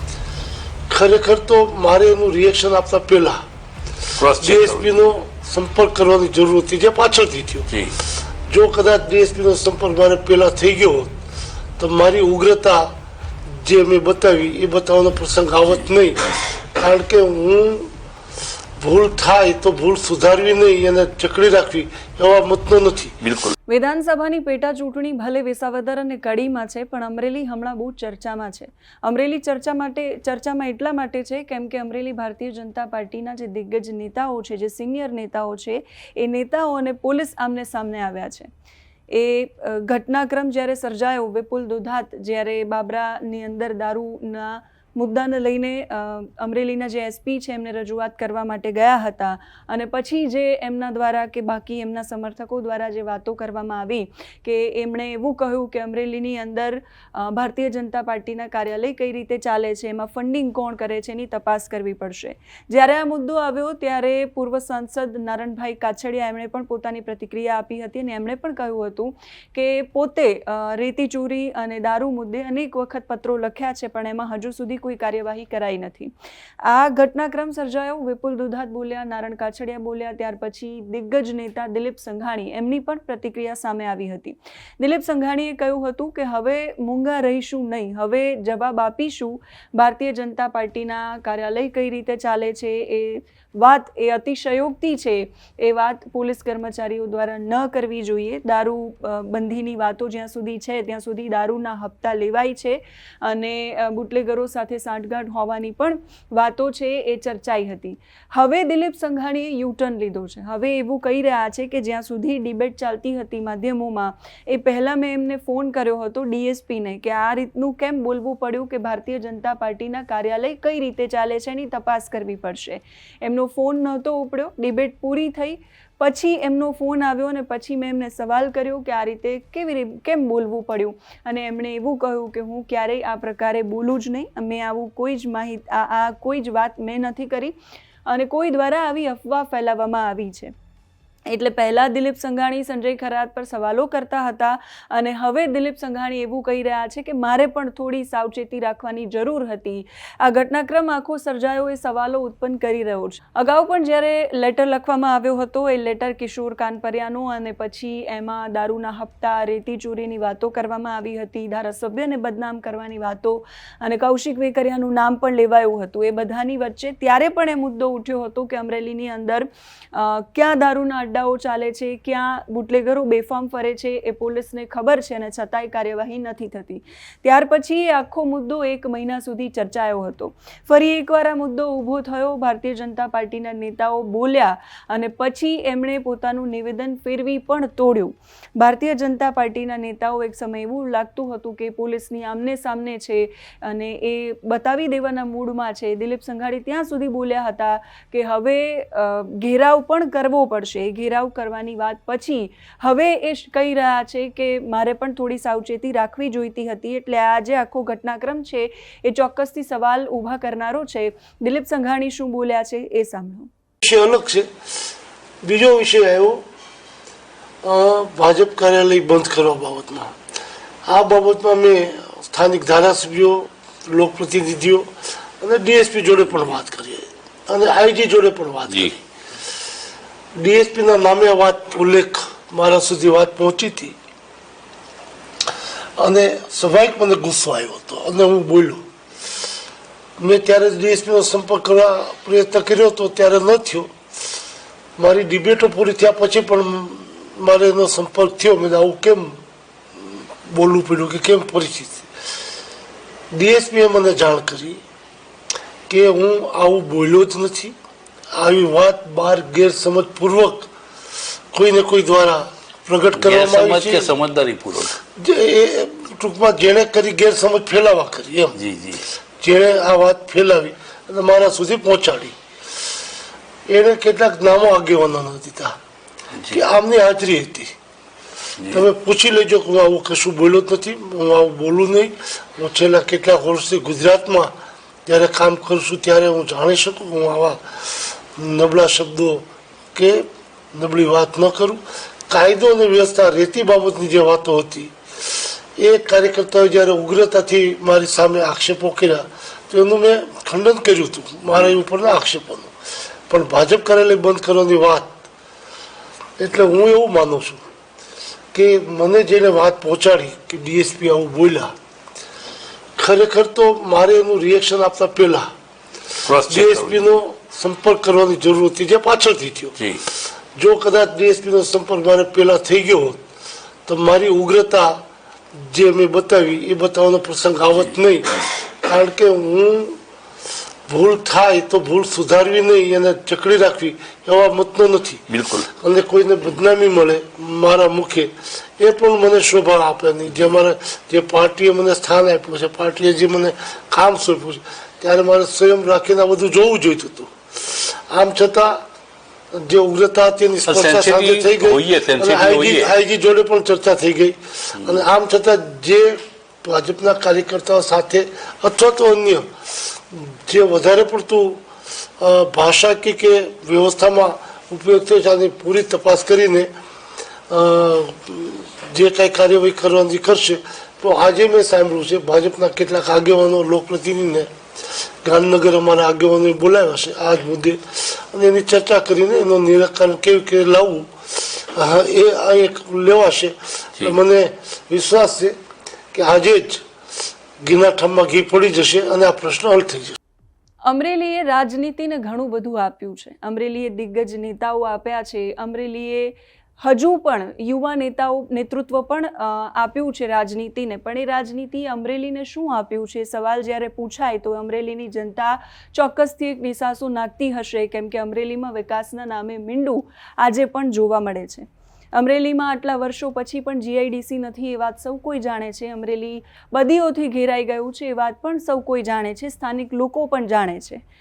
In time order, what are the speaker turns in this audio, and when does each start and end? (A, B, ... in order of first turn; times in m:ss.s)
0:00.9-0:03.4 A
0:04.2-0:05.1 B
0:04.3-0:07.7 A
0:07.7-0:07.9 B
0:08.5-0:11.1 A
0:11.8-0:12.9 A
0:13.5-0:17.9 A
0:18.8-0:23.2 A
0:23.2-0:23.5 B
0:23.7-0:38.5 C
0:39.1-2:17.5 C
2:18.1-2:20.5 C
2:21.3-3:33.5 C
3:33.8-3:34.5 A
3:35.4-3:36.4 A
3:37.6-3:40.2 A
3:40.8-3:49.0 A
3:50.3-3:54.0 A
3:56.0-3:58.8 A
4:00.2-4:03.9 A
4:05.0-4:09.4 A
4:10.0-4:12.1 A
4:13.3-4:14.8 A
4:15.9-4:17.7 A
4:18.3-4:20.7 A
4:21.5-4:24.1 A
4:23.2-4:24.9 B
4:25.1-4:28.6 A
4:28.5-4:29.0 B
4:29.4-4:32.4 A
4:33.7-4:35.8 A
4:36.3-4:36.6 B
4:36.5-4:37.7 A
4:38.6-4:38.8 B
4:38.7-4:44.5 A
4:45.0-4:54.9 A
4:55.8-5:02.7 A
5:03.3-5:05.2 A
5:06.4-5:07.6 A
5:08.5-5:11.7 A
5:13.0-5:15.5 A
5:16.2-5:17.2 B
5:16.4-5:19.8 A
5:19.8-5:20.0 B
5:20.5-5:23.2 A
5:23.8-5:25.0 A
5:25.6-5:30.0 A
5:30.9-5:48.8 A
5:35.3-5:35.7 B
5:49.5-6:01.6 A
5:50.7-5:52.9 B
5:54.8-5:55.0 B
6:02.2-6:06.7 A
6:07.5-6:14.5 A
6:15.2-6:25.6 A
6:26.1-6:26.8 A
6:27.6-6:30.2 A
6:30.8-7:01.0 C